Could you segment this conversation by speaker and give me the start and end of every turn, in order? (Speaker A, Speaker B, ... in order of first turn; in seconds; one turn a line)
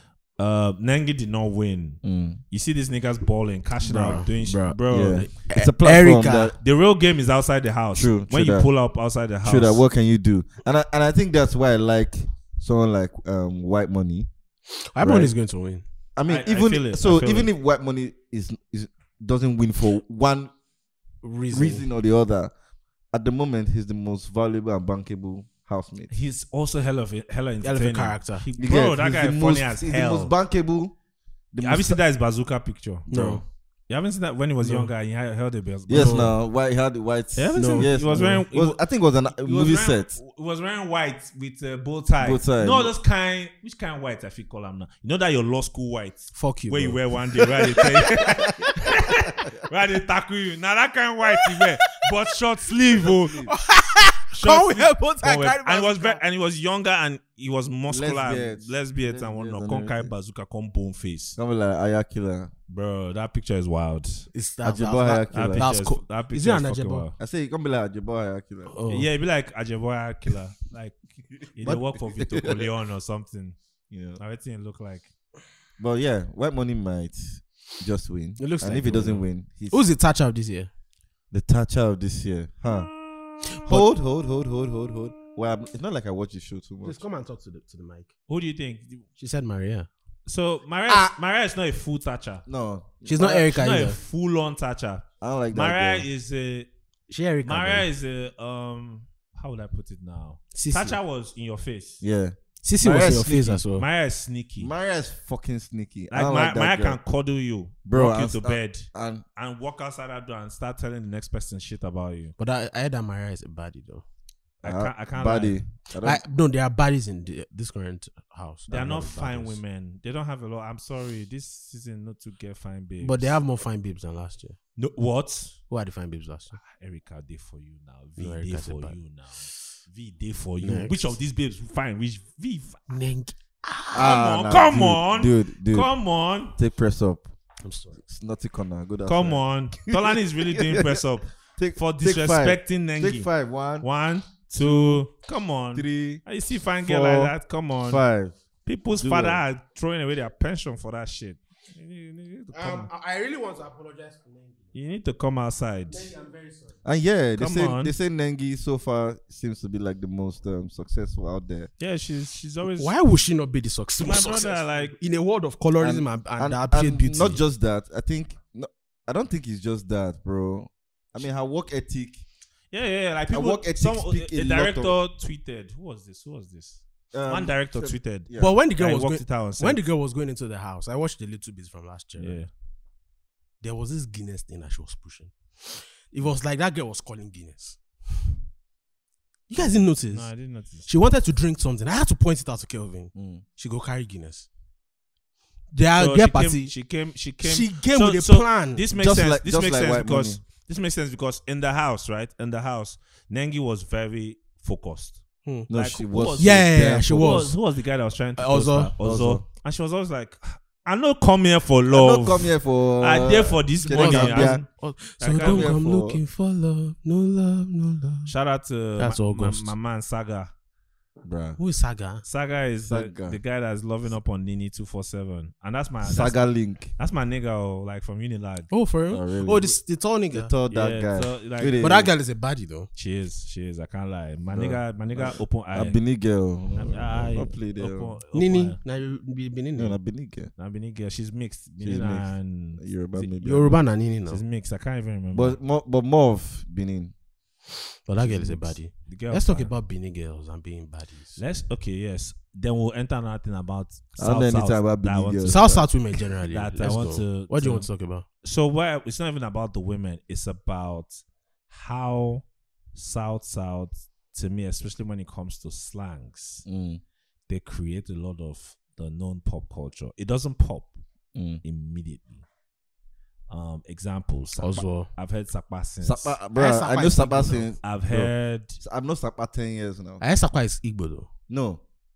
Speaker A: 0.4-5.3
Speaker B: 2.0-2.4
Speaker C: 3.8-6.5
Speaker B: 4.8-6.6
Speaker A: 6.6-9.8
Speaker B: 7.9-8.7
Speaker B: 9.4-14.3
Speaker C: 14.9-15.8
Speaker B: 15.0-15.3
Speaker B: 16.1-20.5
Speaker A: 16.2-17.5
Speaker C: 21.2-21.8
Speaker B: 21.5-22.5
Speaker B: 23.1-26.1
Speaker A: 26.1-30.3
Speaker C: 27.6-28.4
Speaker B: 28.6-30.9
Speaker B: 31.5-32.0
Speaker A: 31.6-33.1
Speaker C: 33.1-33.4
Speaker B: 33.1-33.4
Speaker A: 33.9-36.3
Speaker C: 34.6-34.9
Speaker B: 35.9-40.2
Speaker C: 35.9-36.3
Speaker A: 37.4-38.8
Speaker C: 37.5-38.4
Speaker A: 39.3-53.5
Speaker B: 42.2-42.9
Speaker C: 46.3-48.1
Speaker C: 48.6-48.9
Speaker C: 51.4-51.6
Speaker B: 53.0-53.5
Speaker C: 53.5-56.2
Speaker A: 54.3-61.4
Speaker B: 57.9-60.1
Speaker B: 61.4-62.5
Speaker A: 62.7-64.3
Speaker C: 64.3-67.1
Speaker B: 64.6-65.7
Speaker A: 65.3-67.2
Speaker B: 67.2-68.8
Speaker C: 68.7-69.1
Speaker A: 68.9-73.6
Speaker B: 71.6-72.7
Speaker B: 73.9-74.2
Speaker A: 74.2-75.1
Speaker B: 75.8-79.8
Speaker C: 78.4-80.7
Speaker B: 81.3-87.0
Speaker C: 83.6-83.8
Speaker C: 86.8-88.1
Speaker A: 88.3-89.0
Speaker C: 89.2-89.9
Speaker A: 90.2-92.4
Speaker C: 90.9-91.1
Speaker B: 92.5-93.2
Speaker C: 93.0-94.0
Speaker A: 93.2-96.7
Speaker B: 95.2-96.1
Speaker C: 97.1-97.9
Speaker A: 97.4-102.0
Speaker C: 100.5-101.0
Speaker B: 102.0-103.6
Speaker C: 102.6-103.8
Speaker A: 103.7-104.7
Speaker B: 104.6-107.0
Speaker A: 106.1-112.3
Speaker B: 107.8-109.2
Speaker C: 112.4-114.0
Speaker A: 114.6-115.6
Speaker B: 114.6-116.2
Speaker C: 116.0-119.6
Speaker A: 118.7-123.4
Speaker C: 123.0-124.6
Speaker A: 124.8-125.6
Speaker C: 125.7-126.6
Speaker A: 126.5-132.9
Speaker C: 128.2-129.0
Speaker C: 130.6-131.2
Speaker C: 132.9-134.2
Speaker B: 133.9-135.9
Speaker A: 133.9-136.5
Speaker B: 136.5-137.3
Speaker C: 137.6-138.0
Speaker B: 138.0-141.0
Speaker A: 139.1-143.3
Speaker B: 141.6-143.9
Speaker A: 143.8-148.0
Speaker B: 144.6-145.1
Speaker B: 145.7-146.2
Speaker B: 146.8-148.3
Speaker A: 148.6-152.9
Speaker B: 148.9-149.4
Speaker C: 152.5-154.7
Speaker A: 154.7-156.1
Speaker C: 155.9-156.8
Speaker B: 156.8-161.7
Speaker A: 157.4-157.9
Speaker A: 161.8-162.9
Speaker C: 162.6-167.4
Speaker A: 164.0-164.9
Speaker B: 165.8-172.2
Speaker A: 172.7-179.8
Speaker B: 173.3-174.9
Speaker B: 177.1-178.6
Speaker C: 178.3-182.4
Speaker A: 182.2-182.5
Speaker C: 183.6-187.8
Speaker C: 189.5-190.3
Speaker A: 190.1-190.9
Speaker C: 190.8-194.5
Speaker B: 193.1-193.4
Speaker C: 195.7-196.7
Speaker A: 195.9-214.7
Speaker C: 197.4-198.8
Speaker B: 198.9-200.4
Speaker C: 205.4-207.5
Speaker B: 205.7-207.5
Speaker C: 208.4-208.9
Speaker B: 209.0-209.4
Speaker B: 211.9-214.6
Speaker C: 213.9-218.3
Speaker A: 215.2-215.7
Speaker B: 215.3-216.2
Speaker A: 218.2-220.5
Speaker C: 219.0-219.7
Speaker B: 221.2-221.6
Speaker C: 221.6-222.2
Speaker A: 222.2-228.7
Speaker B: 222.8-223.4
Speaker B: 226.0-226.9
Speaker C: 228.7-230.5
Speaker B: 229.1-229.8
Speaker B: 230.3-232.1
Speaker A: 230.7-231.9
Speaker C: 231.8-232.9
Speaker A: 232.9-236.0
Speaker B: 234.5-238.2
Speaker A: 236.8-238.8
Speaker C: 238.3-240.0
Speaker B: 239.8-240.5
Speaker A: 240.6-243.3
Speaker B: 241.8-243.8
Speaker C: 243.4-244.4
Speaker A: 244.2-245.6
Speaker B: 245.3-247.1
Speaker C: 248.1-251.4
Speaker A: 248.2-249.7
Speaker A: 251.4-257.9
Speaker B: 254.2-255.8
Speaker C: 255.4-258.2
Speaker A: 258.4-266.6
Speaker B: 266.6-267.0
Speaker A: 267.5-271.0
Speaker B: 271.3-271.6
Speaker A: 271.6-272.4
Speaker A: 273.5-276.4
Speaker C: 274.6-275.1
Speaker B: 276.0-280.2
Speaker C: 276.5-277.7
Speaker A: 277.8-278.8
Speaker C: 280.2-281.3
Speaker B: 281.5-281.8